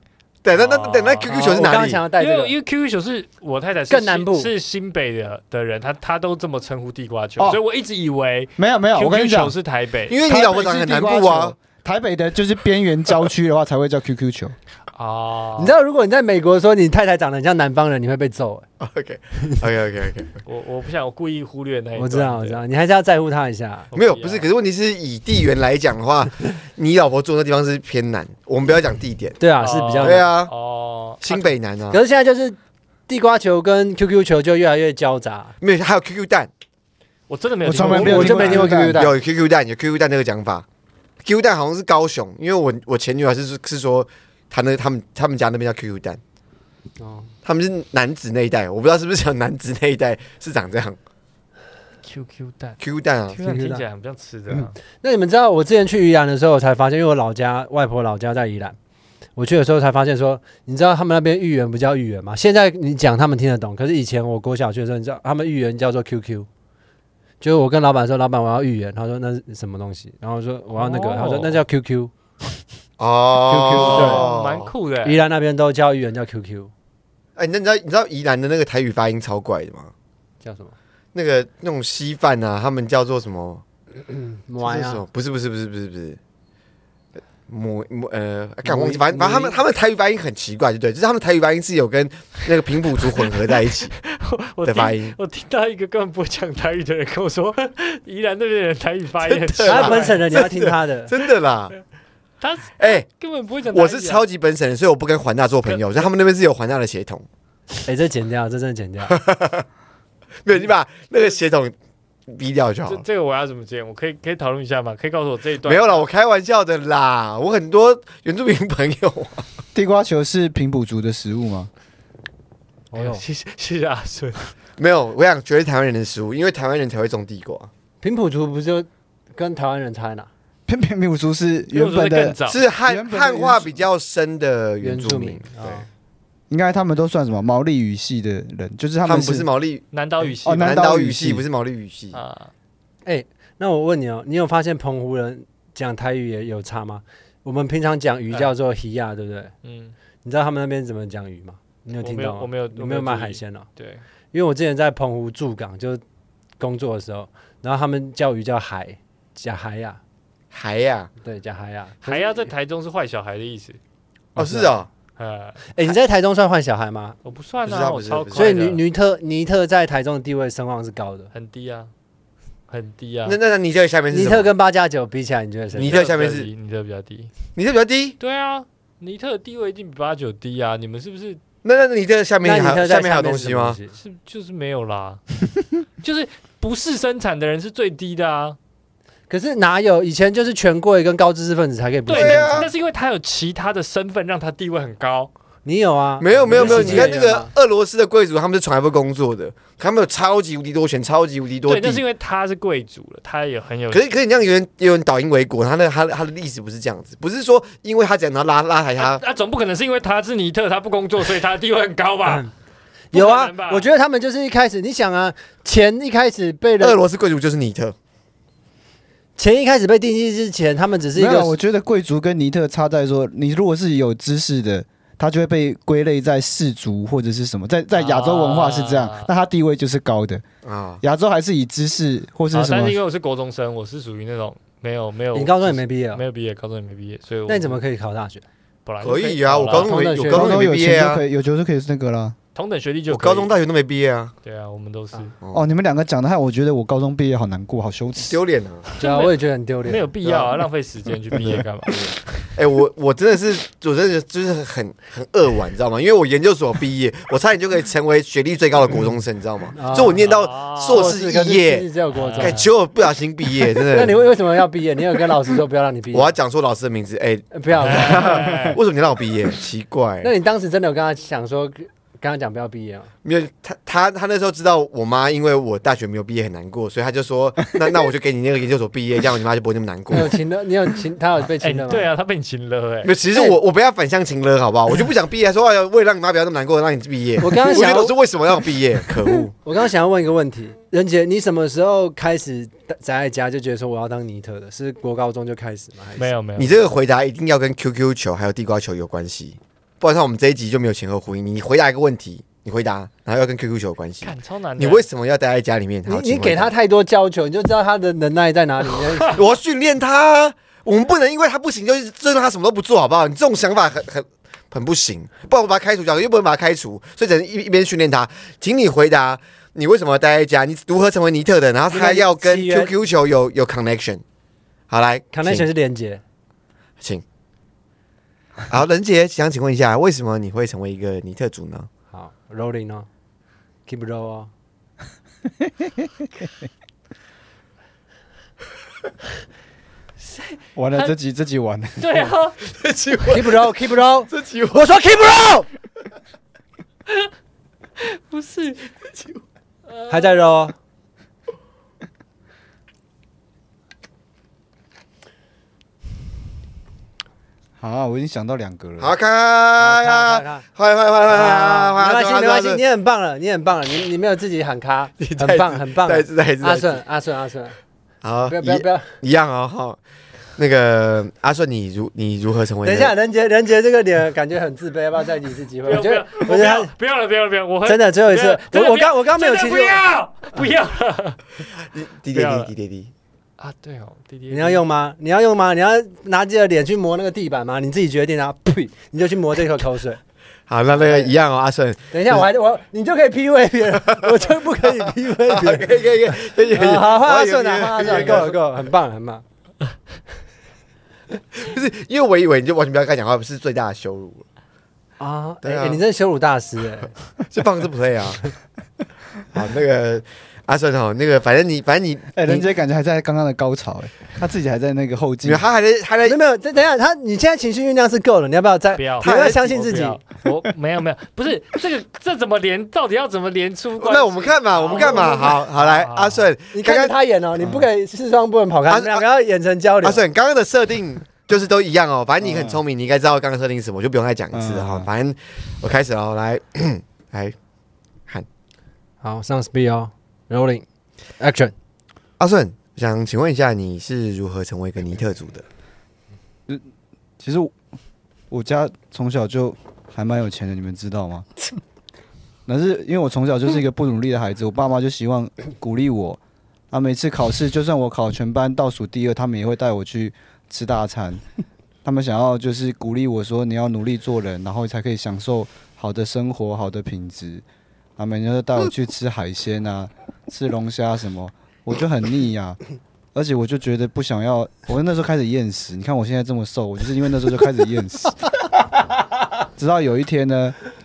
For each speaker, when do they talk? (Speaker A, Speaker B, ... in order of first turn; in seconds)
Speaker A: 0.4-2.0, 10.1-11.5, 18.8-20.4, 23.9-29.4, 30.0-30.5, 31.2-32.0, 35.6-36.5, 38.7-40.6, 41.2-46.2, 47.4-51.0, 52.8-53.4, 73.0-74.7, 77.3-79.9, 81.1-83.6, 84.6-86.2, 87.5-94.0, 94.6-95.2, 99.2-101.7, 102.8-103.0, 103.7-107.2, 109.1-109.7, 110.4-111.7, 112.3-113.0, 115.6-119.5, 124.8-127.7, 132.5-135.8, 139.0-139.8, 140.5-142.2, 160.5-161.1, 164.3-164.9, 167.6-168.5, 173.2-174.5, 175.8-176.5, 177.5-178.2, 181.6-183.8, 192.1-192.7, 196.2-202.0, 203.9-209.2, 216.8-217.9, 230.6-231.0, 239.0-241.2, 243.1-244.3, 248.3-248.9, 250.2-250.6, 251.3-261.9, 262.4-264.2, 266.1-270.3, 273.2-280.4, 283.0-289.5, 296.6-306.7, 309.3-324.2, 324.9-325.7, 328.7-331.9, 342.6-343.7, 344.3-345.0, 349.1-349.4, 359.0-362.8, 365.2-367.0, 368.2-370.0, 370.6-373.1, 381.9-383.1, 390.7-392.5, 394.0-394.5, 395.5-398.6, 401.5-404.4, 405.6-406.0, 407.5-408.5, 409.5-412.4, 415.4-416.4, 419.2-419.8, 424.0-427.1, 428.9-429.2, 430.0-437.5, 442.4-445.6
Speaker B: 0.5-1.6, 2.1-10.2, 14.9-15.7, 20.4-22.6, 23.9-24.5, 29.6-31.5, 37.3-38.7, 52.0-54.7, 70.8-71.6, 73.7-75.2, 94.0-100.3, 102.4-104.2, 112.8-116.1, 123.0-124.5, 131.7-132.6, 139.9-140.8, 142.1-142.5, 149.6-149.9, 152.0-154.0, 162.0-163.8, 165.2-165.6, 167.2-168.8, 171.3-171.9, 172.7-173.4, 175.8-177.3, 178.2-181.4, 184.0-185.2, 186.0-188.6, 192.1-195.3, 196.4-197.2, 201.7-204.1, 209.0-212.5, 213.1-213.8, 227.9-229.3, 232.5-237.8, 238.8-240.1, 242.5-243.5, 244.4-245.3, 249.0-249.3, 249.9-252.0, 260.1-261.2, 262.1-262.7, 267.8-268.8, 281.4-283.1, 296.2-296.8, 304.2-305.1, 340.2-341.1, 342.0-342.6, 348.0-348.9, 349.9-350.7, 375.9-381.6, 382.3-382.7, 383.6-384.8, 418.9-426.5
Speaker C: 1.3-2.5, 3.9-4.5, 15.6-18.6, 21.9-23.9, 29.4-30.2, 31.9-35.5, 37.8-39.1, 47.0-47.3, 53.4-53.8, 54.5-58.8, 59.4-66.5, 67.4-72.1, 73.5-74.3, 75.0-76.7, 80.4-80.7, 84.1-85.0, 88.6-89.6, 99.6-101.1, 107.8-109.2, 122.9-123.2, 128.0-130.3, 134.8-135.9, 143.0-149.5, 150.2-153.7, 154.3-156.0, 156.6-160.0, 161.2-162.4, 164.3-164.7, 165.7-167.2, 168.3-171.3, 174.1-176.0, 182.4-183.9, 189.3-192.7, 195.6-197.5, 213.1-217.0, 219.4-221.5, 235.3-236.2, 237.5-238.4, 239.7-240.6, 249.0-250.1, 259.8-260.2, 260.9-262.6, 263.9-266.3, 267.5-268.3, 270.2-273.1, 280.1-282.1, 287.4-288.2, 289.6-296.3, 306.1-309.4, 321.9-322.9, 325.3-326.2, 332.1-333.1, 333.9-334.5, 343.3-345.7, 350.1-350.7, 359.8-360.6, 361.3-367.7, 368.5-369.1, 372.8-376.9, 377.8-380.0, 384.5-390.2, 390.9-391.3, 392.1-396.0, 396.7-399.4, 405.2-407.1, 416.2-420.2, 424.9-425.4, 426.7-430.2, 439.2-440.8, 441.4-441.7
Speaker D: 8.6-9.5, 10.2-14.5, 37.6-39.0, 119.7-121.7, 130.7-133.8, 136.5-139.5, 140.4-141.4, 221.1-230.4, 231.0-233.0, 240.3-242.3, 245.5-248.4, 335.6-336.1, 340.8-342.3, 357.8-359.1, 412.3-415.6, 427.6-427.9, 432.4-432.8, 434.5-435.1, 447.4-447.8, 448.5-451.4, 452.7-456.4, 456.9-461.4, 462.0-467.6, 468.2-472.8, 473.3-478.4, 479.8-480.8